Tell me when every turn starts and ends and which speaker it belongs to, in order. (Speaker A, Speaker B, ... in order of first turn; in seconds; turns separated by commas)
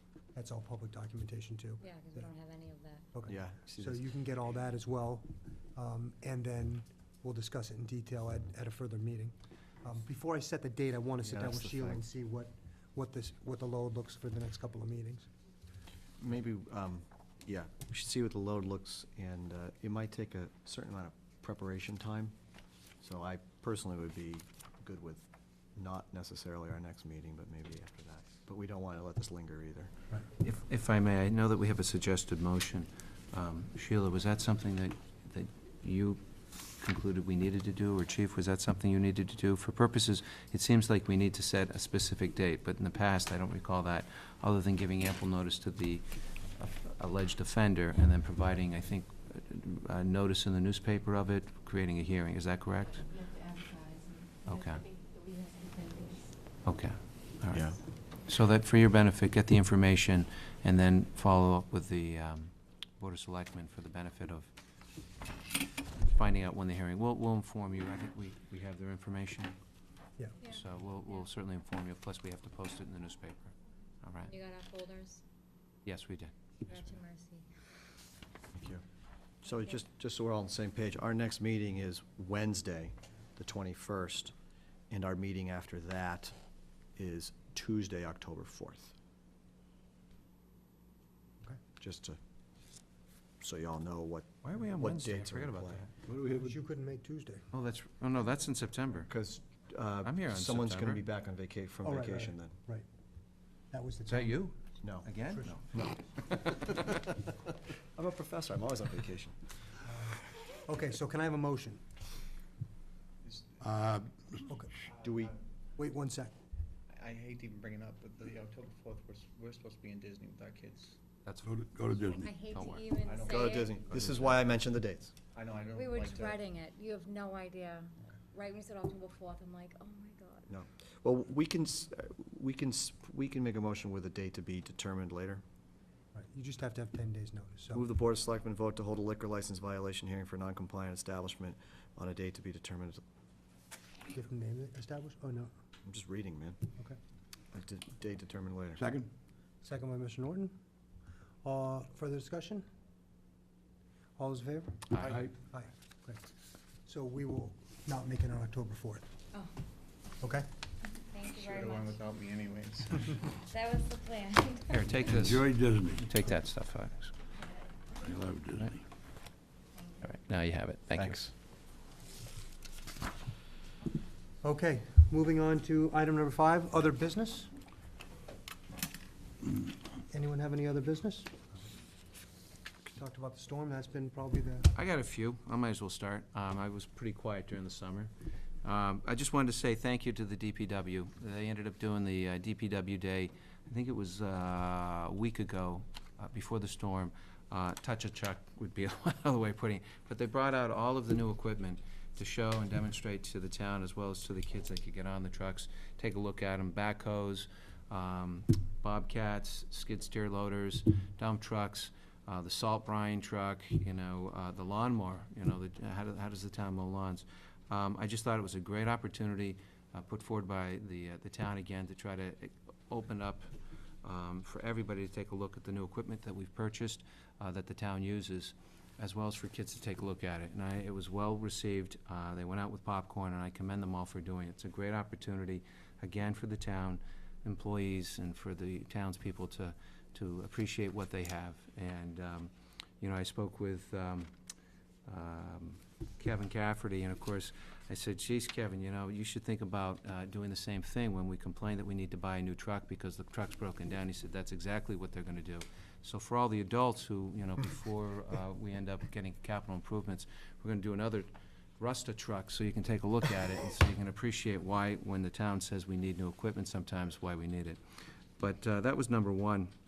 Speaker A: 0.3-2.2, Speaker B: 1.8-3.1, Speaker A: 3.1-15.3, Speaker C: 3.3-4.0, Speaker C: 11.2-12.0, Speaker C: 16.2-22.3, Speaker C: 23.0-29.9, Speaker D: 30.4-36.2, Speaker D: 36.8-53.1, Speaker E: 53.1-56.3, Speaker D: 54.5-54.8, Speaker D: 56.6-64.5, Speaker C: 57.5-57.8, Speaker D: 66.0-69.5, Speaker D: 70.4-74.3, Speaker B: 74.2-75.2, Speaker D: 75.8-76.3, Speaker B: 76.7-77.5, Speaker C: 78.6-78.8, Speaker C: 79.4-84.3, Speaker C: 84.9-86.3, Speaker C: 87.0-88.9, Speaker C: 91.8-92.2, Speaker C: 93.4-95.9, Speaker D: 94.4-95.9, Speaker A: 96.3-97.5, Speaker D: 97.5-99.1, Speaker C: 99.1-102.5, Speaker D: 100.0-101.0, Speaker A: 101.8-102.8, Speaker A: 103.7-104.4, Speaker D: 104.1-106.8, Speaker C: 104.8-105.1, Speaker A: 105.3-105.6, Speaker C: 105.7-107.0, Speaker C: 108.0-109.4, Speaker A: 109.8-111.8, Speaker F: 113.2-113.6, Speaker G: 113.6-114.4, Speaker A: 114.4-114.7, Speaker C: 115.0-115.3, Speaker A: 115.8-116.3, Speaker F: 116.9-121.0, Speaker D: 121.2-122.9, Speaker G: 121.4-122.2, Speaker B: 122.2-123.8, Speaker F: 123.0-123.4, Speaker C: 123.2-125.1, Speaker D: 123.8-124.4, Speaker F: 125.3-126.4, Speaker B: 125.7-130.5, Speaker C: 130.5-135.4, Speaker A: 136.1-137.8, Speaker C: 137.7-143.0, Speaker A: 144.1-145.5, Speaker C: 145.8-146.6, Speaker C: 147.5-148.8, Speaker G: 148.8-149.1, Speaker A: 149.6-150.5, Speaker A: 151.4-152.7, Speaker A: 154.2-156.3, Speaker D: 154.9-155.3, Speaker A: 156.8-159.1, Speaker A: 160.2-160.5, Speaker B: 160.9-162.1, Speaker F: 161.2-163.2, Speaker B: 163.5-165.0, Speaker D: 164.7-167.1, Speaker G: 165.0-166.0, Speaker G: 168.0-168.8, Speaker D: 168.5-168.8, Speaker D: 170.0-171.2, Speaker C: 170.9-171.3, Speaker A: 174.4-177.5, Speaker A: 180.1-181.4, Speaker A: 182.9-184.7, Speaker D: 184.7-188.1, Speaker D: 188.6-223.5, Speaker D: 224.0-244.3, Speaker D: 245.1-267.8, Speaker D: 268.4-269.7